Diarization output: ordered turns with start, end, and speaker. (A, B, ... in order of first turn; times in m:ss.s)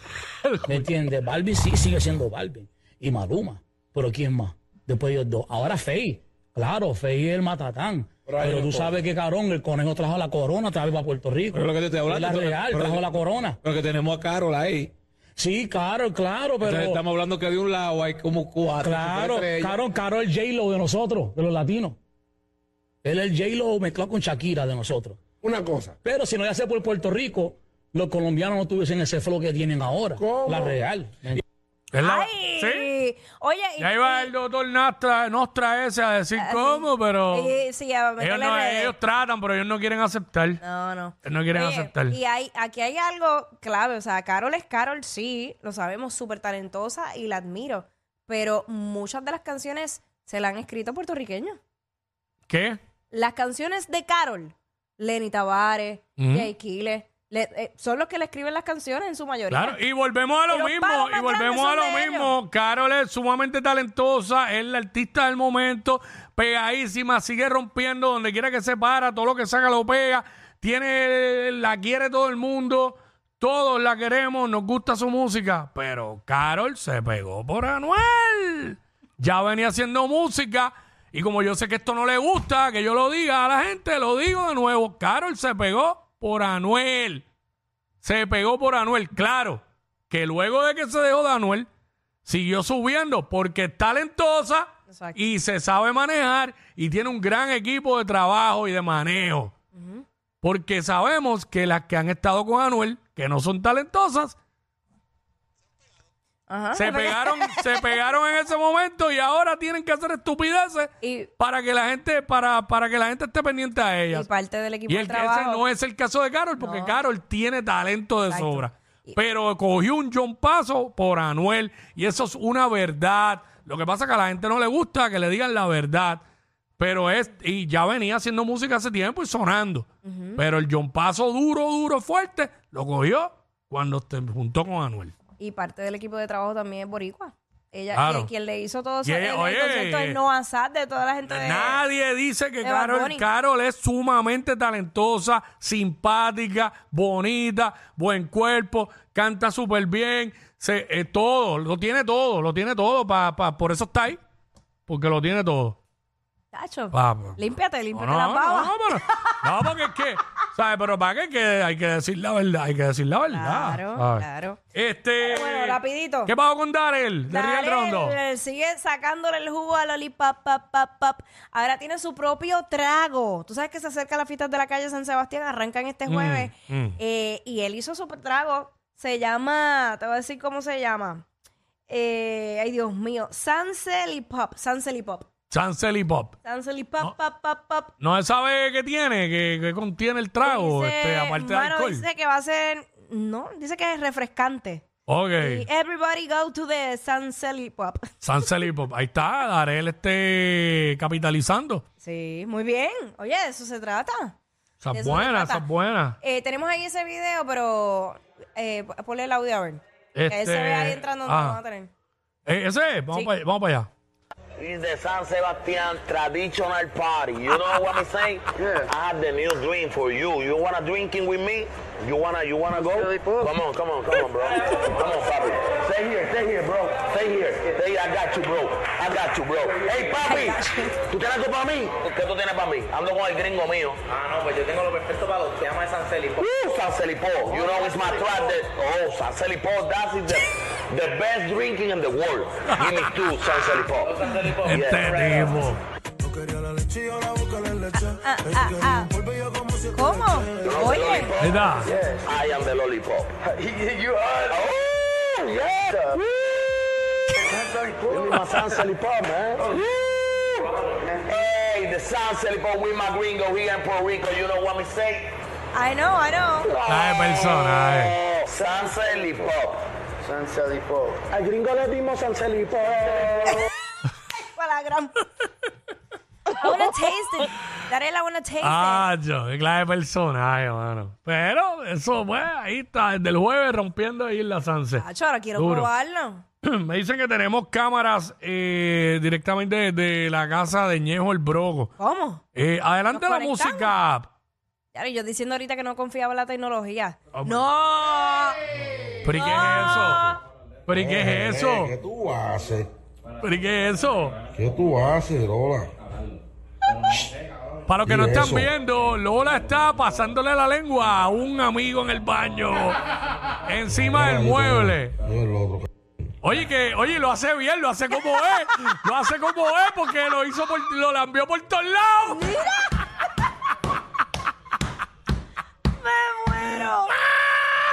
0:00.4-0:00.9 A
0:00.7-0:13.6 B
0:08.3-0:08.9 C
0:11.6-0:13.0 D
0:12.7-0:13.0 C
0:13.6-0:14.9 D
0:15.4-0:17.0 B
0:16.6-0:19.5 D
0:18.8-0:22.0 B
0:18.8-0:19.7 C
0:23.0-0:25.2 B
0:26.0-0:31.4 B
0:31.9-0:32.9 A
0:32.0-0:34.3 E
0:33.8-0:37.6 A
0:36.4-0:38.9 E
0:38.2-0:40.6 A
0:40.6-0:51.6 E
0:41.2-0:42.2 A
0:52.5-0:52.8 A
0:53.1-0:59.8 E
0:56.2-0:56.5 A
0:59.5-1:27.2 A
1:00.5-1:02.3 E
1:28.0-1:31.7 A
1:32.2-1:39.5 A
1:34.9-1:35.2 E
1:39.7-1:40.0 E
1:40.4-1:44.4 A
1:46.5-1:47.6 E
1:46.8-1:54.3 A
1:51.0-1:51.3 E
1:54.1-1:55.6 E
1:54.9-2:06.2 A
1:56.6-1:57.0 E
1:58.3-1:59.2 E
2:06.8-2:15.2 A
2:10.0-2:10.4 E
2:15.4-2:21.8 E
2:17.9-2:18.3 A
2:19.0-2:20.2 A
2:21.3-2:34.2 A
2:22.6-2:23.2 E
2:34.9-2:35.8 A
2:36.5-2:39.3 E
2:36.9-2:37.4 A
2:37.9-2:48.2 A
2:43.3-2:44.6 E
2:45.2-2:46.3 E
2:47.3-3:01.3 E
2:56.1-2:57.0 A
3:01.9-3:05.3 E
3:05.5-3:06.4 A
3:06.4-3:07.9 E
3:08.0-3:12.0 A
3:10.4-3:14.9 E
3:15.1-3:15.7 A
3:15.4-3:18.1 E
3:18.2-3:21.8 A
3:22.0-3:24.3 E
3:24.8-3:26.2 A
3:24.9-3:25.6 E
3:26.2-3:31.9 E
3:30.2-3:31.6 A
3:32.5-3:33.9 A
3:34.6-3:54.0 F
3:50.2-3:51.0 E
3:54.2-3:56.4 G
3:56.4-4:05.2 F
4:04.4-4:05.8 A
4:07.9-4:09.1 E
4:09.9-4:11.3 E
4:10.6-4:13.4 F
4:11.4-4:11.9 A
4:14.4-4:16.2 F
4:17.6-4:19.8 F
4:21.2-4:25.3 F
4:25.7-4:26.7 E
4:26.7-4:29.8 F
4:26.9-4:28.2 A
4:31.2-4:33.6 F
4:33.4-4:33.7 E
4:34.4-4:35.2 E
4:36.6-4:39.1 E
4:38.6-4:45.0 A
4:45.0-4:46.4 E
4:45.6-4:45.9 A
4:46.6-4:51.9 A
4:52.0-4:52.4 E
4:52.6-4:54.3 A
4:53.1-4:54.0 E
4:54.9-4:58.6 E
4:57.4-4:57.6 A
4:59.2-5:00.3 A
4:59.3-5:00.4 E
5:00.9-5:02.0 A
5:01.0-5:02.9 C
5:03.4-5:04.4 A
5:04.6-5:05.9 C
5:07.9-5:13.0 A
5:08.1-5:08.7 C
5:13.7-5:15.2 A
5:14.0-5:15.8 C
5:16.4-5:22.5 A
5:22.3-5:23.0 E
5:26.0-5:27.2 E